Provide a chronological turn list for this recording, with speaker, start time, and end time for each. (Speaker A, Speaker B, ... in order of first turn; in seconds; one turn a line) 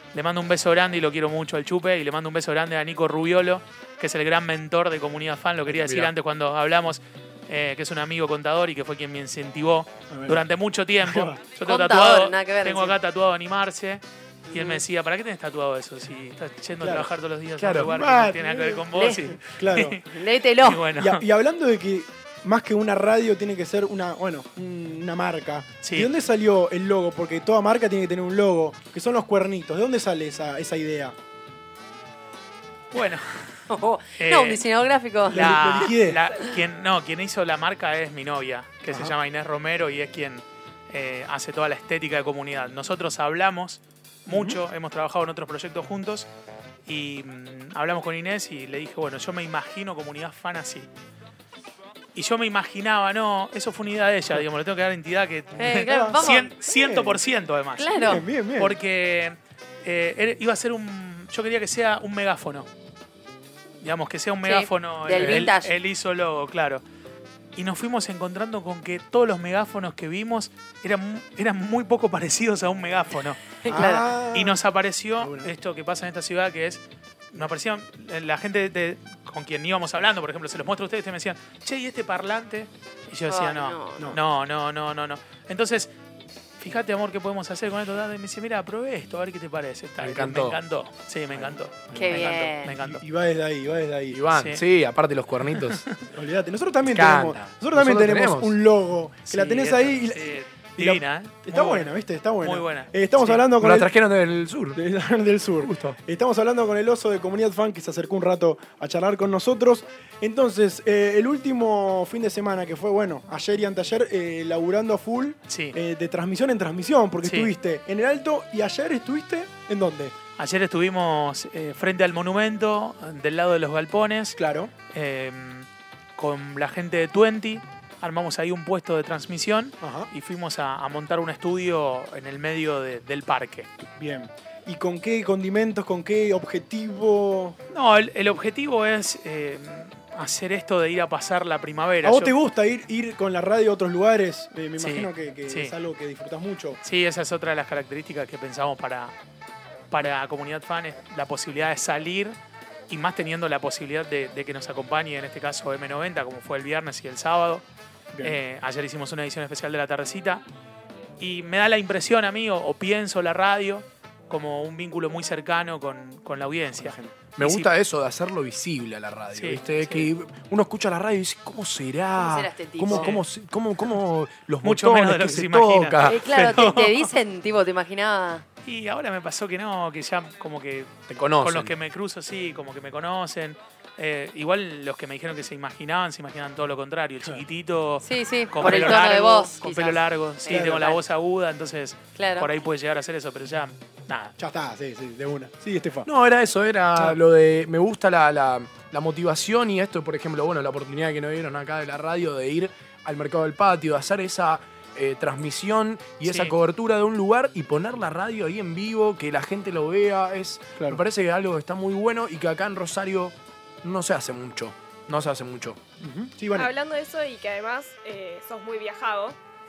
Speaker A: 0.1-20.0
Speaker B: 5.7-6.1
Speaker C: 10.1-10.4
Speaker C: 11.0-11.4
Speaker D: 11.6-12.9
Speaker D: 14.5-14.8
Speaker C: 16.8-17.1
Speaker B: 17.6-17.9
Speaker C: 17.7-20.0
Speaker D: 18.9-19.3
Speaker D: 20.1-20.9
Speaker A: 20.6-21.2
Speaker C: 20.9-31.1
Speaker A: 25.8-26.1
Speaker A: 32.9-33.6
Speaker D: 33.7-35.9
Speaker A: 34.2-34.6
Speaker C: 35.3-36.2
Speaker A: 35.3-46.3
Speaker C: 38.9-39.1
Speaker C: 44.3-44.6
Speaker A: 46.9-50.9
Speaker A: 52.1-62.7
Speaker D: 55.6-56.5
Speaker C: 55.7-57.2
Speaker D: 57.8-58.2
Speaker C: 58.0-58.8
Speaker A: 63.8-66.8
Speaker D: 64.4-65.7
Speaker B: 65.1-65.5
Speaker A: 67.5-73.4
Speaker D: 73.6-74.1
Speaker C: 73.7-74.6
Speaker A: 74.3-85.9
Speaker C: 75.2-75.5
Speaker D: 83.3-84.2
Speaker A: 86.6-93.0
Speaker B: 90.0-90.6
Speaker C: 91.3-94.2
Speaker D: 91.9-92.7
Speaker B: 94.1-95.8
Speaker A: 94.3-94.6
Speaker A: 95.5-96.0
Speaker C: 96.1-103.9
Speaker B: 96.9-98.5
Speaker A: 99.3-103.4
Speaker B: 103.6-104.8
Speaker C: 104.7-120.1
Speaker B: 105.6-106.0
Speaker A: 115.5-115.8
Speaker A: 117.2-117.5
Speaker A: 120.4-124.4
Speaker C: 124.3-124.7
Speaker A: 124.9-133.7
Speaker C: 129.8-130.1
Speaker C: 133.8-137.6
Speaker A: 137.7-142.3
Speaker C: 142.0-146.8
Speaker A: 144.8-145.7
Speaker A: 146.8-149.1
Speaker A: 149.9-152.3
Speaker A: 152.9-157.6
Speaker C: 158.1-158.4
Speaker A: 158.2-160.4
Speaker A: 161.2-167.7
Speaker C: 166.7-167.2
Speaker B: 167.4-176.2
Speaker A: 169.3-170.0
Speaker D: 172.2-173.2
Speaker A: 172.9-173.2
Speaker A: 174.6-177.1
Speaker D: 176.0-178.4
Speaker A: 178.6-194.3
Speaker B: 181.1-181.7
Speaker D: 188.0-191.0
Speaker C: 190.5-190.9
Speaker D: 192.2-192.5
Speaker C: 194.4-196.1
Speaker B: 196.1-215.8
Speaker A: 206.2-206.5
Speaker C: 216.0-216.7
Speaker E: 216.5-219.4